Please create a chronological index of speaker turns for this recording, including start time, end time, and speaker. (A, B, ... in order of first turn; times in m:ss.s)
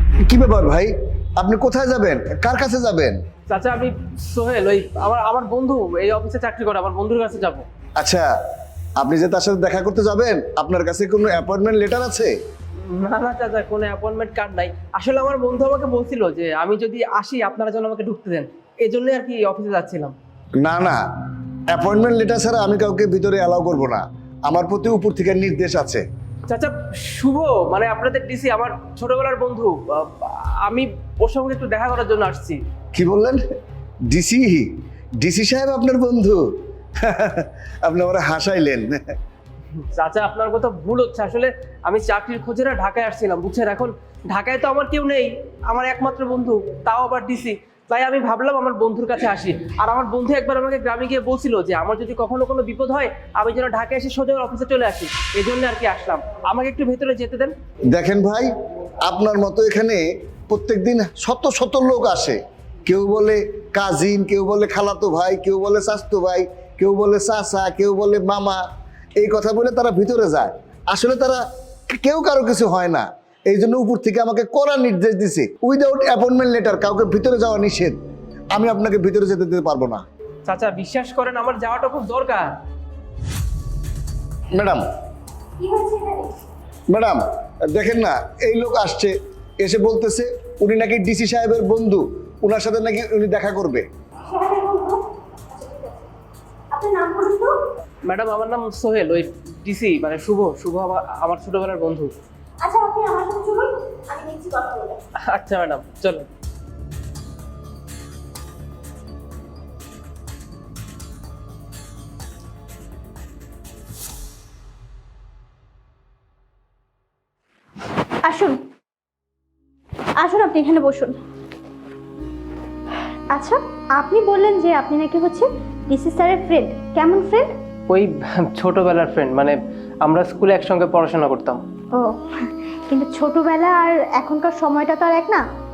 0:00.2-0:03.2 A
0:03.5-0:07.7 B
0:08.0-0:08.3 A
0:09.0-0:12.4 A
0:12.9-0:20.2 B
0:20.6-0:21.0 A
0:21.7-0:26.0 A
0:26.5-0:32.6 B
0:33.0-0:33.5 A
0:34.1-0:34.7 A
0:35.2-0:36.4 A
0:37.0-0:39.1 A
0:39.8-0:57.5 B
0:57.9-0:58.5 A
0:59.0-1:08.6 A
1:09.2-1:18.0 A
1:18.5-1:20.0 A
1:20.5-1:22.6 B
1:24.6-1:24.8 A
1:25.6-1:26.3 C
1:26.9-1:27.2 A
1:27.7-1:33.9 A
1:34.3-1:35.0 C
1:36.7-1:37.5 C
1:38.1-1:42.1 B
1:42.6-1:45.0 C
1:45.3-1:46.3 B
1:58.3-1:58.6 C
2:00.2-2:01.2 C
2:03.3-2:07.5 C
2:07.9-2:11.6 B
2:12.9-2:15.4 C